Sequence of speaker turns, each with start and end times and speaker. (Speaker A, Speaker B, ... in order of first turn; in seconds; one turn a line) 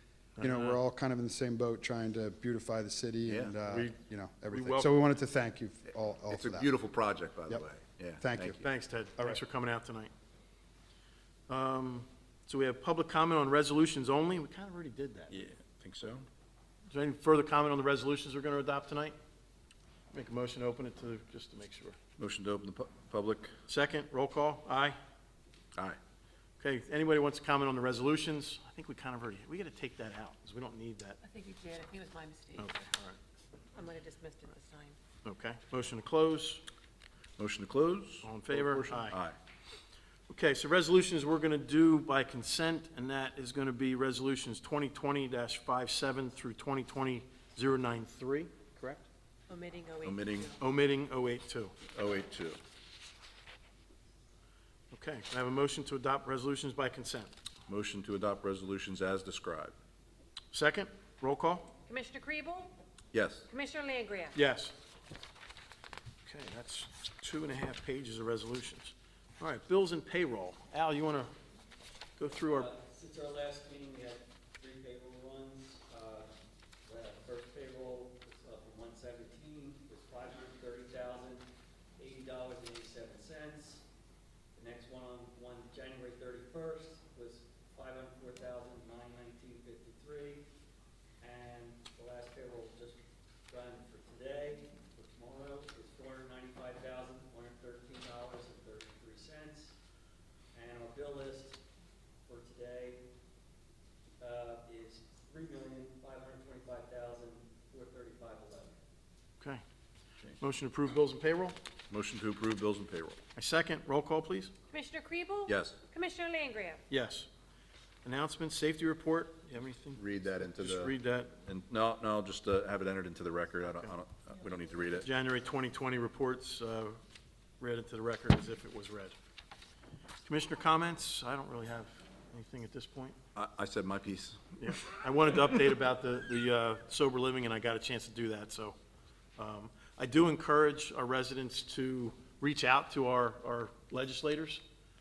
Speaker A: 0.4-0.8
Speaker B: 0.4-6.7
Speaker C: 3.3-3.6
Speaker A: 3.6-4.0
Speaker A: 4.5-5.0
Speaker C: 6.3-8.7
Speaker B: 8.2-8.6
Speaker A: 8.6-10.1
Speaker A: 11.5-15.3
Speaker C: 15.3-16.3
Speaker A: 16.9-19.1
Speaker A: 20.1-22.0
Speaker C: 22.2-23.6
Speaker A: 23.7-25.0
Speaker A: 26.6-31.2
Speaker D: 31.2-32.7
Speaker A: 32.6-33.2
Speaker D: 33.8-35.0
Speaker A: 35.2-36.6
Speaker C: 37.4-39.4
Speaker A: 38.2-39.2
Speaker A: 40.3-49.1
Speaker D: 49.5-50.6
Speaker C: 50.0-50.5
Speaker A: 50.6-51.8
Speaker C: 51.9-52.6
Speaker A: 54.9-57.3
Speaker C: 57.7-59.8
Speaker A: 60.5-61.7
Speaker E: 61.9-62.7
Speaker C: 63.1-63.5
Speaker E: 63.5-64.4
Speaker A: 64.3-64.8
Speaker A: 66.2-71.3
Speaker A: 72.2-72.7
Speaker F: 72.5-76.3
Speaker F: 76.9-81.4
Speaker F: 82.0-83.8
Speaker F: 84.5-90.4
Speaker F: 91.2-99.7
Speaker F: 100.5-101.6
Speaker F: 102.3-103.0
Speaker F: 104.2-108.8
Speaker A: 110.4-111.6
Speaker C: 111.9-113.2
Speaker A: 113.4-114.5
Speaker E: 114.7-116.8
Speaker C: 115.5-115.8
Speaker A: 116.9-117.3
Speaker A: 118.0-121.3
Speaker C: 120.0-120.9
Speaker C: 121.5-125.1
Speaker A: 125.0-127.0
Speaker A: 127.6-129.2
Speaker A: 130.2-133.2
Speaker C: 133.3-134.7
Speaker A: 134.6-138.8
Speaker A: 139.4-144.6